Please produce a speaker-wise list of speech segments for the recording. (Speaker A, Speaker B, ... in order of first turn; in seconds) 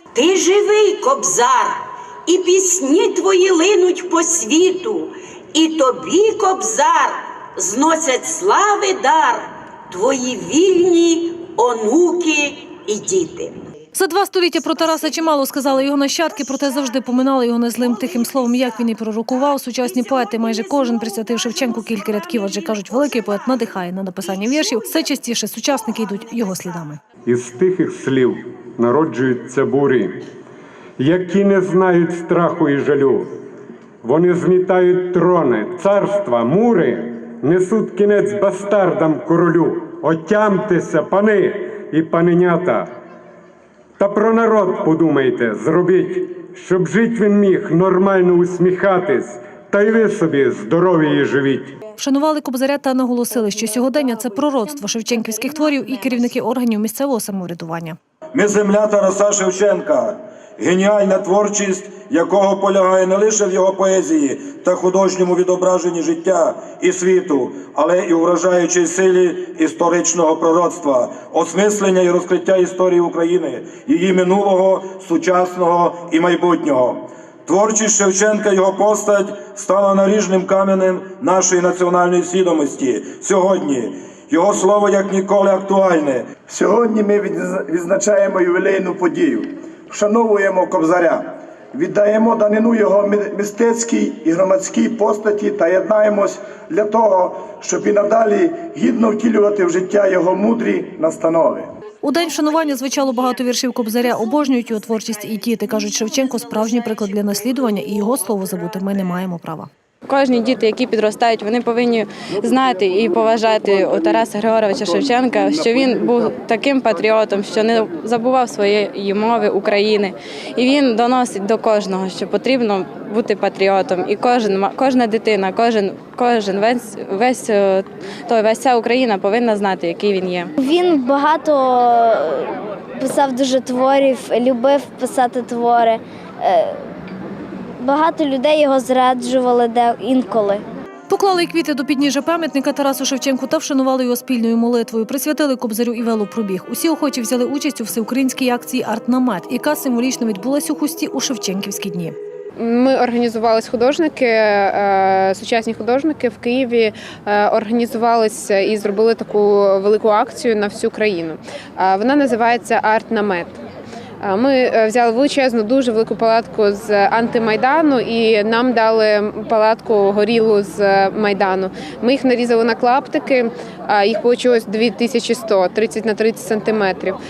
Speaker A: 0.2-1.8, 2.3-13.5
Speaker B: 13.9-27.0, 52.0-58.0, 102.0-109.7, 141.1-152.1
Speaker C: 27.3-30.2, 31.0-33.3, 34.0-42.9, 44.0-51.8
Speaker D: 58.3-86.3
Speaker E: 86.5-101.7
Speaker F: 110.1-130.5
Speaker G: 130.6-136.8, 137.8-140.6
Speaker H: 152.6-163.6, 164.2-177.2